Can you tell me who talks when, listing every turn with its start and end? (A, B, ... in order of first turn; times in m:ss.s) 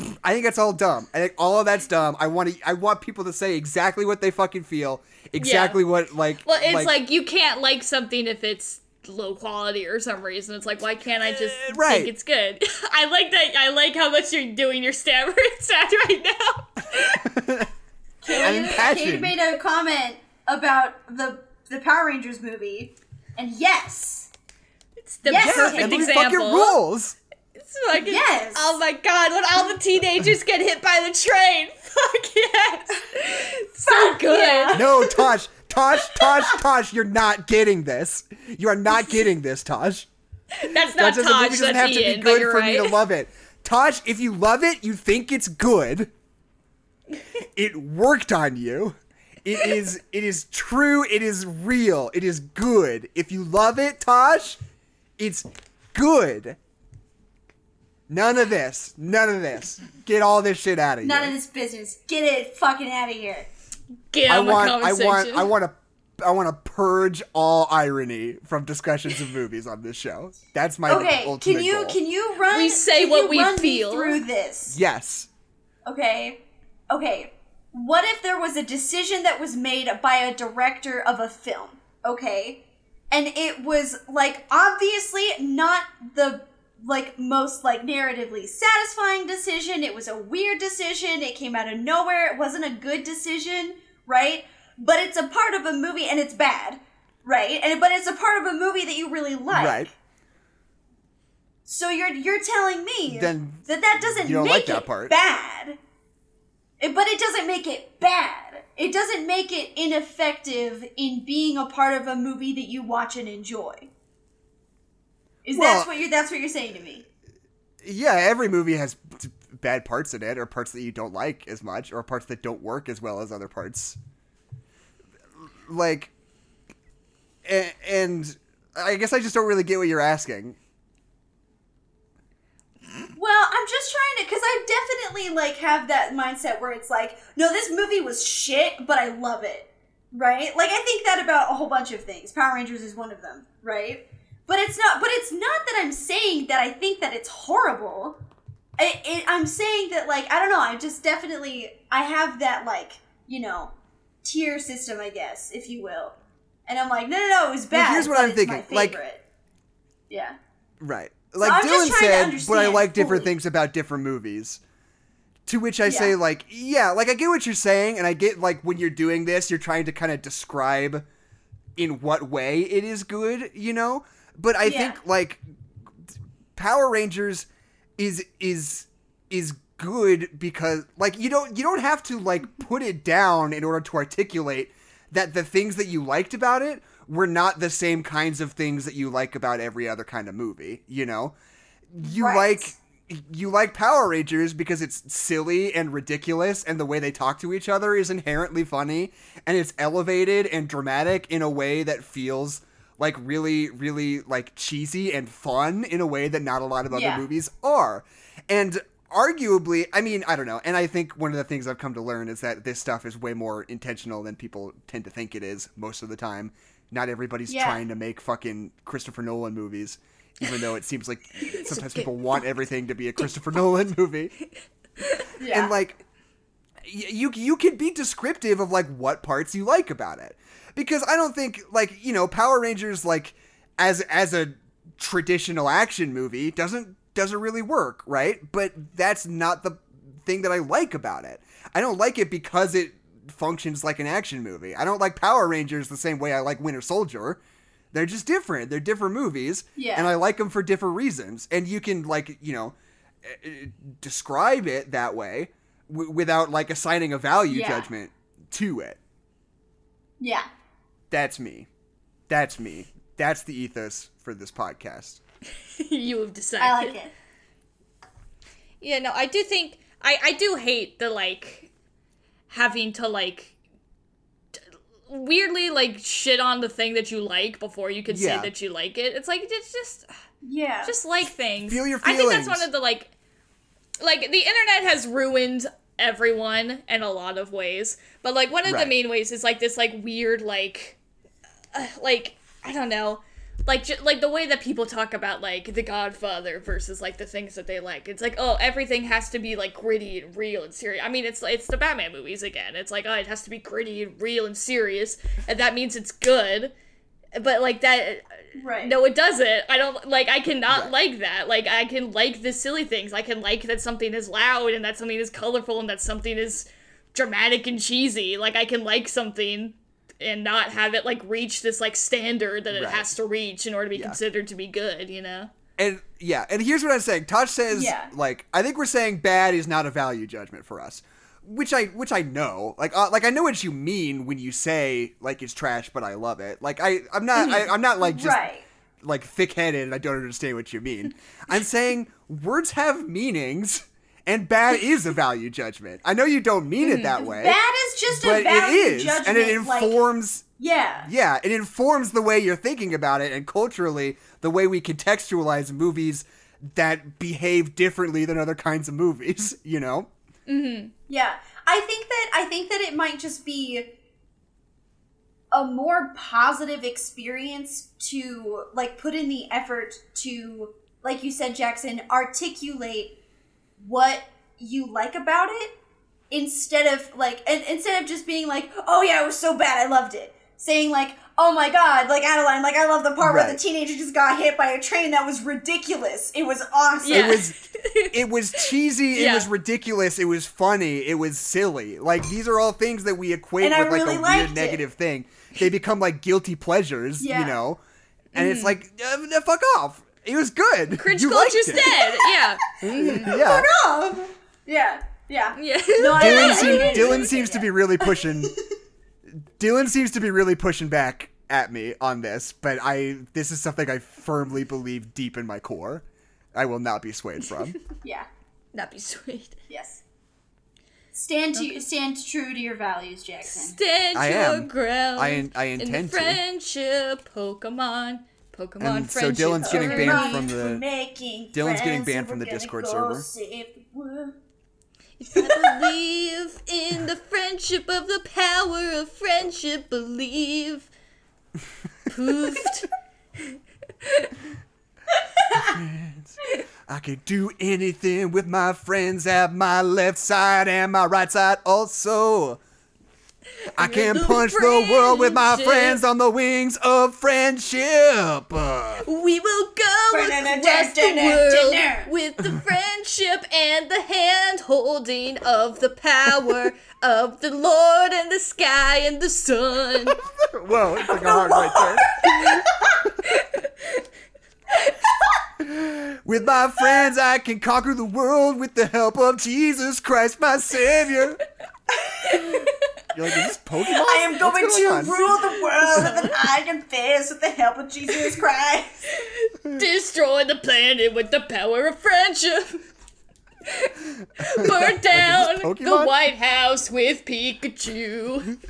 0:00.2-0:06.9 A
0:05.4-0:05.8 B
0:06.4-0:17.3 B
0:11.5-0:12.1 A
0:17.2-0:17.7 A
0:18.2-0:24.3 C
0:18.3-0:18.6 B
0:18.4-0:19.4 A
0:25.0-0:26.8 B
0:25.2-0:26.0 C
0:25.3-0:27.2 A
0:27.6-0:34.8 B
0:28.0-0:28.8 C
0:33.9-0:35.3 C
0:34.7-0:40.1 A
0:40.5-0:43.0 B
0:40.7-0:46.1 A
0:47.5-0:54.6 A
0:55.2-0:56.6 A
0:58.1-1:01.3 A
1:01.0-1:03.5 C
1:04.1-1:05.5 B
1:04.3-1:12.0 A
1:10.9-1:14.8 C
1:12.5-1:14.2 B
1:14.7-1:15.3 A
1:15.8-1:39.9 C
1:39.5-1:39.9 A
1:41.6-1:45.8 C
1:43.1-1:45.1 A
1:46.8-1:53.9 C
1:55.4-1:57.0 C
1:55.5-1:55.9 A
1:57.8-2:04.0 A
2:05.7-2:06.1 A
2:07.4-2:10.6 A
2:13.2-2:28.2 C
2:28.8-2:33.7 C
2:34.2-2:39.2 C
2:37.7-2:39.0 A
2:40.1-2:40.4 C
2:40.8-2:44.6 A
2:41.4-2:43.3 C
2:45.5-2:51.0 A
2:45.8-2:46.1 C
2:51.8-2:55.4 A
2:54.6-2:55.0 C
2:56.5-3:11.3 A
3:11.9-3:44.3 A
3:12.1-3:12.7 C
3:26.9-3:27.2 C
3:37.5-3:37.8 C
3:41.5-3:42.3 B
3:45.0-3:45.3 B
3:45.4-3:45.7 C
3:45.5-3:46.0 A
3:46.8-4:07.4 A
4:07.9-4:19.0 A
4:09.8-4:10.1 C
4:17.5-4:17.9 C
4:20.2-4:20.5 C
4:21.1-4:21.7 A
4:22.3-4:25.2 A
4:25.7-4:27.0 B
4:26.6-4:27.1 C
4:28.8-4:31.7 B
4:32.5-4:33.5 B
4:34.5-4:40.1 B
4:38.1-4:38.5 A
4:40.4-4:40.9 C
4:40.8-4:43.1 B
4:41.6-4:42.7 A
4:44.0-4:51.0 B
4:48.6-4:48.9 A
4:51.7-5:06.7 B
5:07.3-5:25.5 B
5:08.6-5:08.9 C
5:22.7-5:23.1 A
5:25.8-5:38.4 A
5:27.7-5:28.1 C
5:37.4-5:38.6 C
5:39.0-5:47.6 A
5:46.8-5:47.2 B
5:47.2-5:50.0 C
5:48.1-5:50.4 A
5:50.6-5:51.1 C
5:51.0-6:00.1 A
6:00.5-6:00.9 B
6:01.1-6:03.9 C
6:05.5-6:13.1 C
6:13.8-6:15.7 C
6:16.3-6:27.5 C
6:23.2-6:23.6 A
6:27.0-6:29.5 B
6:27.1-6:27.6 A
6:28.1-6:37.8 A
6:33.6-6:34.8 C
6:37.2-6:37.6 C
6:38.3-6:38.7 B
6:38.3-6:42.0 A
6:40.9-6:43.3 B
6:41.8-6:48.6 C
6:42.8-6:43.7 A
6:45.6-6:47.3 B
6:46.2-6:48.5 A
6:49.6-6:56.0 A
6:56.5-6:57.8 A
6:58.7-6:59.6 B
6:59.7-7:00.0 C
7:01.1-7:03.8 C
7:03.5-7:10.5 B
7:04.1-7:06.4 A
7:08.8-7:10.8 A
7:09.6-7:14.4 C
7:11.5-7:13.2 A
7:15.2-7:20.9 B
7:15.4-7:15.9 C
7:22.1-7:23.4 B
7:24.0-7:24.3 B
7:25.5-7:25.7 C
7:25.6-7:32.6 A
7:33.7-7:39.0 A
7:33.8-7:36.0 B
7:39.0-7:50.2 B
7:40.1-7:42.1 C
7:50.2-7:53.1 A
7:51.0-7:53.1 C
7:53.3-7:54.0 B
7:55.6-8:01.4 A
8:02.3-8:02.7 B
8:03.1-8:05.2 A
8:04.0-8:09.1 C
8:05.8-8:06.4 B
8:09.2-8:12.8 B
8:13.6-8:18.5 B
8:14.5-8:16.1 A